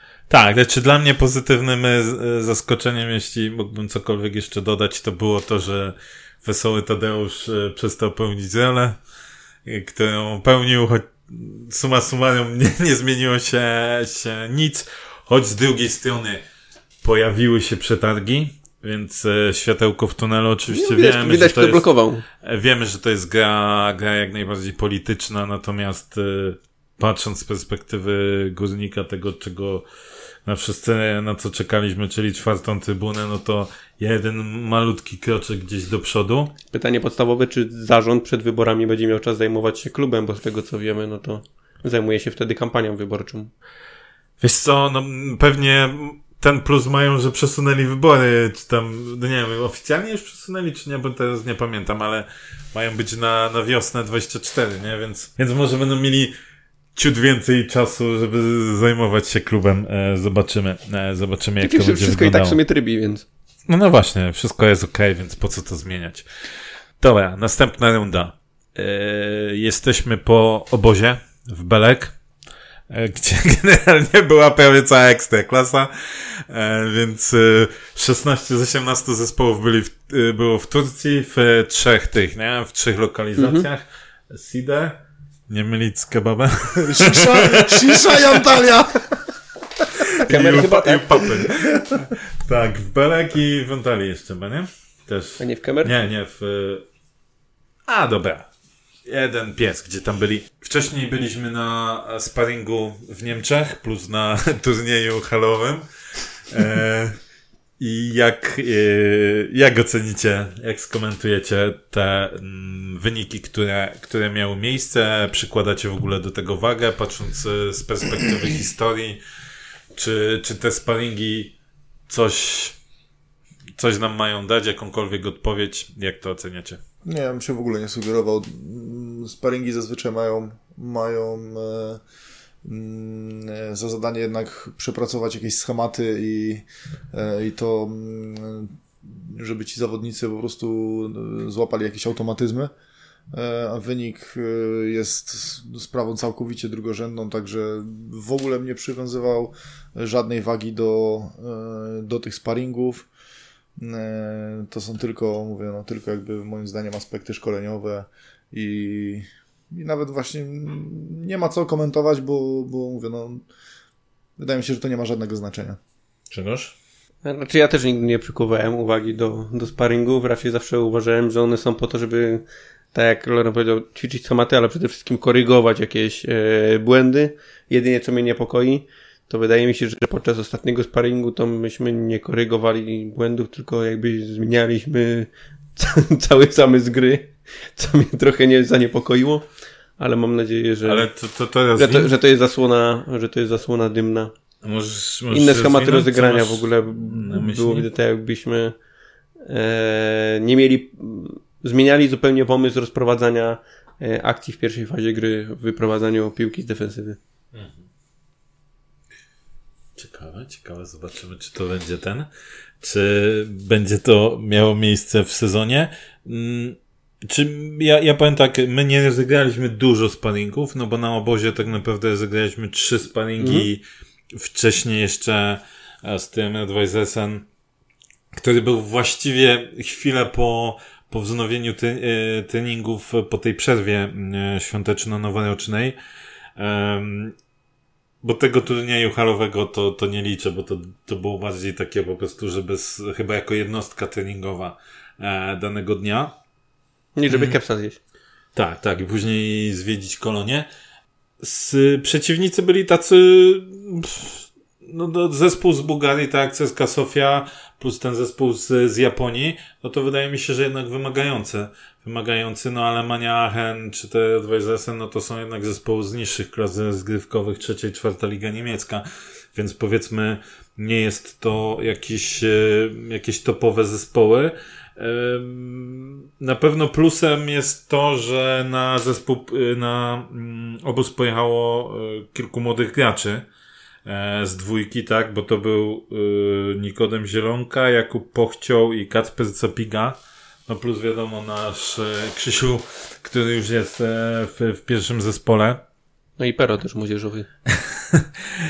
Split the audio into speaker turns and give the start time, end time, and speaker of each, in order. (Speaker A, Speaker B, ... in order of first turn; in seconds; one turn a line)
Speaker A: 0.3-9.0
Speaker A: 9.7-16.4
Speaker A: 17.0-21.9
Speaker B: 20.7-22.2
Speaker A: 22.4-29.9
Speaker A: 30.5-36.5
Speaker B: 36.7-43.5
Speaker A: 44.4-56.4
Speaker A: 57.0-62.6
Speaker B: 61.6-63.2
Speaker A: 63.7-66.3
Speaker A: 67.0-72.1
Speaker A: 72.9-88.4
Speaker B: 83.4-83.7
Speaker C: 86.8-89.2
Speaker A: 90.1-96.8
Speaker B: 90.2-91.5
Speaker B: 95.4-95.9
Speaker A: 97.9-98.5
Speaker A: 99.1-105.8
Speaker A: 106.5-107.2
Speaker A: 107.8-119.2
Speaker A: 120.0-121.5
Speaker A: 122.1-122.8
Speaker A: 123.8-126.8
Speaker C: 127.0-132.0
Speaker C: 132.6-142.7
Speaker C: 143.3-153.1
Speaker C: 153.8-163.4
Speaker C: 164.4-165.8
Speaker A: 166.3-166.7
Speaker B: 167.2-189.5
Speaker B: 190.0-191.1
Speaker A: 190.8-192.1
Speaker B: 191.8-194.3
Speaker A: 194.6-197.9
Speaker B: 195.3-198.8
Speaker B: 199.4-207.2
Speaker A: 207.5-207.8
Speaker A: 210.0-212.3
Speaker A: 212.8-223.8
Speaker B: 223.4-223.7
Speaker A: 224.3-227.5
Speaker A: 228.3-236.0
Speaker A: 236.6-237.3
Speaker A: 238.2-246.3
Speaker B: 247.2-248.0
Speaker A: 247.3-247.6
Speaker A: 248.6-250.7
Speaker A: 251.4-283.5
Speaker A: 284.1-295.8
Speaker B: 296.4-297.5
Speaker A: 297.7-298.3